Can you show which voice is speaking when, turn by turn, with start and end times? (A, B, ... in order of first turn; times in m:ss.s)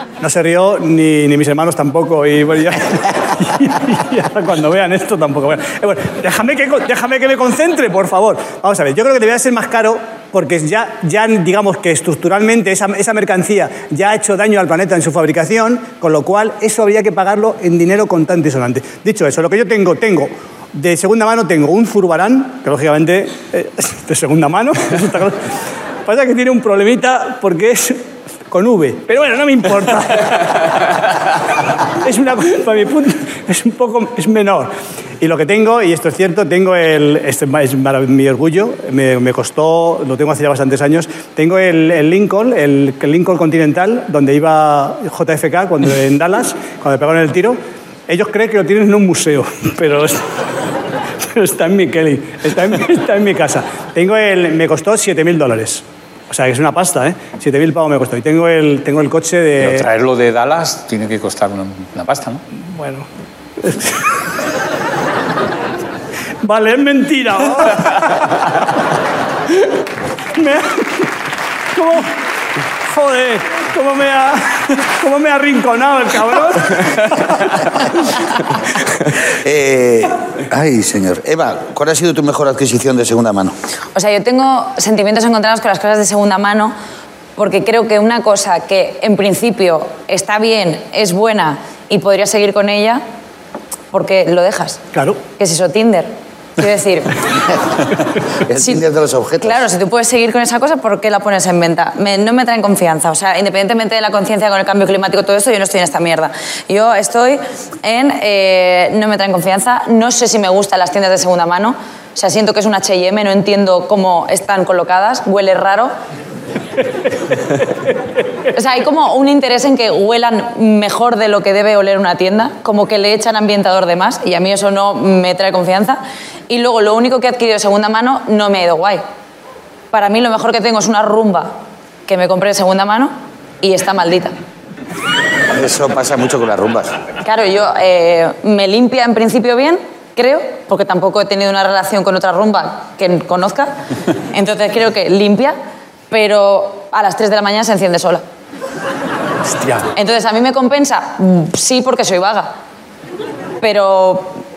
0:00.2-0:25.4 A
0:26.0-0:31.0 A
0:32.0-0:50.2 A
0:51.2-0:59.9 A
0:59.6-1:02.4 B
1:02.6-1:03.1 A
1:03.6-1:04.0 A
1:06.4-1:08.4 A
1:10.4-1:11.1 A
1:11.7-1:12.2 A
1:12.8-1:17.6 A
1:19.3-1:23.5 C
1:23.9-1:26.7 D
1:27.4-1:33.0 D
1:33.9-1:34.8 D
1:34.9-1:35.2 A
1:35.4-1:37.2 D
1:38.4-1:39.6 C
1:38.5-1:38.8 D
1:39.4-1:55.9 D
1:58.5-2:09.0 D
2:09.9-2:11.5 D
2:12.1-2:14.3 D
2:15.5-2:17.0 C
2:17.2-2:23.8 D
2:24.3-2:25.6 D
2:26.1-2:28.2 D
2:29.5-2:29.9 B
2:29.9-2:32.6 D
2:33.6-2:34.4 D